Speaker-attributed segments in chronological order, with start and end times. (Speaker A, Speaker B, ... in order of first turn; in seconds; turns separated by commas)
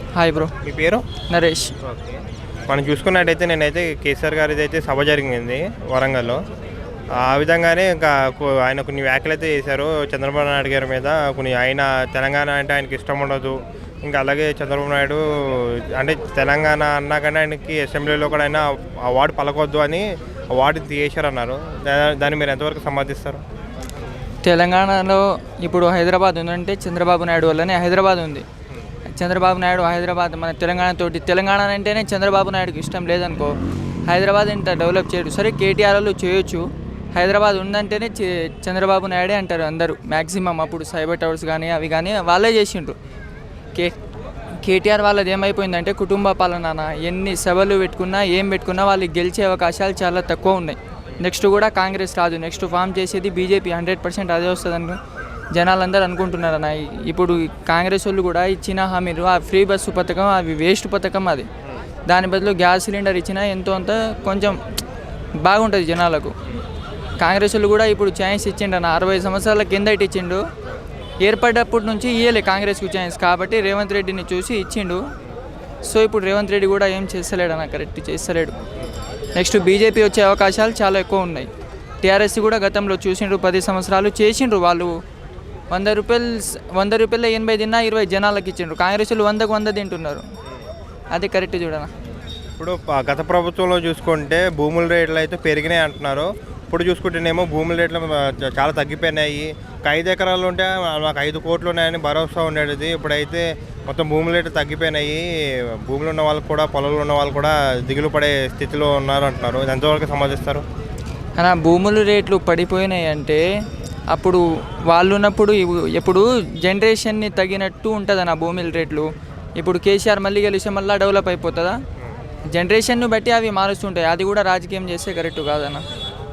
Speaker A: 0.1-0.5, Speaker B: 0.6-1.1, Speaker A: 1.3-1.8, Speaker B: 1.8-6.4, Speaker B: 7.2-23.4, Speaker A: 24.4-28.4, Speaker A: 29.1-33.6, Speaker A: 34.1-43.0, Speaker A: 44.6-55.0, Speaker A: 55.5-61.5, Speaker A: 62.1-64.6, Speaker A: 65.4-66.3, Speaker A: 67.2-70.4, Speaker A: 71.2-75.0, Speaker A: 75.9-78.5, Speaker A: 79.4-81.5, Speaker A: 82.0-85.0, Speaker A: 85.7-90.3, Speaker A: 91.1-91.9, Speaker B: 92.6-105.2, Speaker B: 105.8-110.6, Speaker A: 111.4-113.4, Speaker A: 114.1-121.8, Speaker A: 122.5-125.8